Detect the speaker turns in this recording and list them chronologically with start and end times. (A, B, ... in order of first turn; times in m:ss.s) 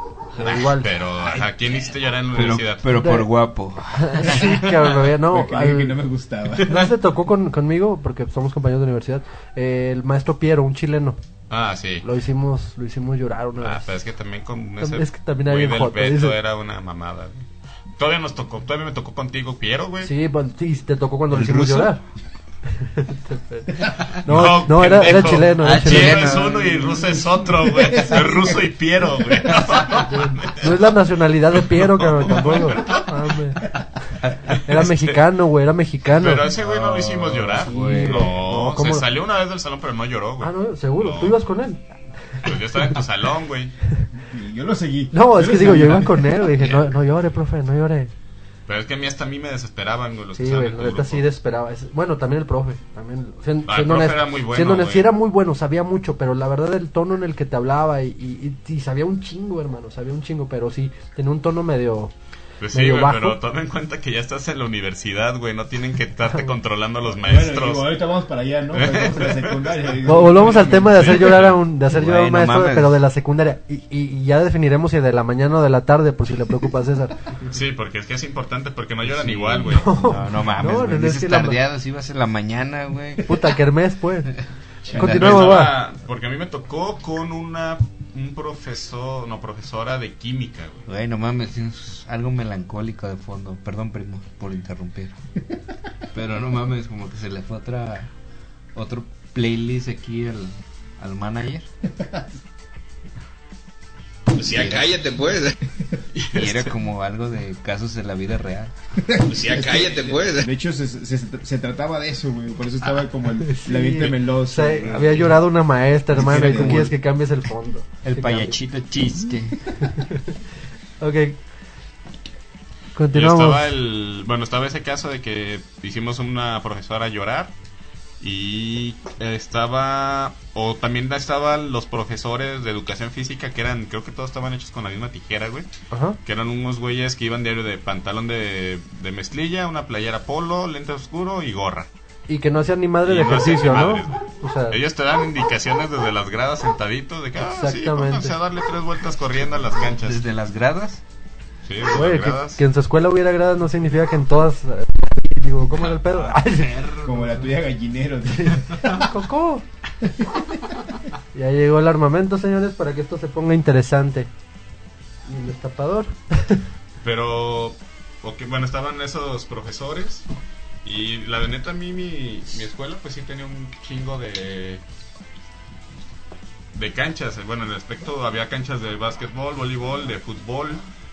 0:00.3-0:00.9 A
0:00.4-0:03.1 B
0:02.3-0:04.8 C
0:03.0-0:03.3 A
0:03.9-0:06.0 A
0:05.2-0:06.8 D
0:06.6-0:11.2 A
0:11.5-0:12.0 B
0:12.0-0:13.8 A
0:13.6-0:17.4 B
0:14.8-0:16.3 A
0:18.0-0:20.1 B
0:20.0-0:22.0 A
0:21.3-0:22.0 C
0:22.7-0:26.3 A
0:24.2-0:30.8 B
0:24.3-0:27.1 C
0:27.6-0:28.7 D
0:30.0-0:33.6 A
0:31.6-0:33.2 B
0:34.5-0:35.2 B
0:34.6-0:36.5 A
0:36.1-0:41.4 B
0:36.5-0:38.3 C
0:37.6-0:39.0 A
0:40.4-0:41.8 A
0:42.4-0:43.7 B
0:44.1-0:46.5 D
0:45.1-0:48.1 A
0:48.7-0:51.2 B
0:50.3-1:02.1 A
0:53.7-0:55.1 B
1:02.6-1:07.9 B
1:02.7-1:03.4 A
1:07.2-1:11.1 D
1:08.7-1:11.6 B
1:10.0-1:17.2 A
1:11.9-1:13.0 C
1:17.5-1:20.0 B
1:19.1-1:23.3 C
1:19.8-1:21.6 A
1:23.2-1:24.3 A
1:24.9-1:30.8 B
1:24.9-1:25.7 C
1:24.9-1:25.7 A
1:30.9-1:35.1 C
1:36.1-1:38.1 C
1:38.7-1:41.7 C
1:42.0-1:42.2 D
1:44.3-1:45.6 E
1:44.5-1:45.0 C
1:46.1-1:46.7 B
1:46.3-1:48.7 C
1:49.0-1:55.4 D
1:49.3-1:50.4 E
1:53.4-1:58.6 A
1:56.1-1:56.9 D
1:56.1-1:56.9 C
1:58.0-1:59.6 C
1:59.8-2:00.3 A
2:01.0-2:01.4 A
2:02.9-2:03.7 A
2:03.1-2:07.5 B
2:08.2-2:15.7 B
2:15.9-2:16.2 A
2:16.2-2:21.9 B
2:22.3-2:24.8 A
2:23.0-2:30.2 B
2:27.4-2:28.3 A
2:30.0-2:31.0 C
2:31.6-2:32.6 B
2:31.9-2:37.1 A
2:36.4-2:37.2 C
2:37.0-2:39.0 D
2:38.3-2:39.6 A
2:40.0-2:40.7 D
2:41.3-2:44.3 A
2:45.2-2:46.6 A
2:47.0-2:50.2 B
2:50.8-2:54.8 B
2:56.7-3:00.8 B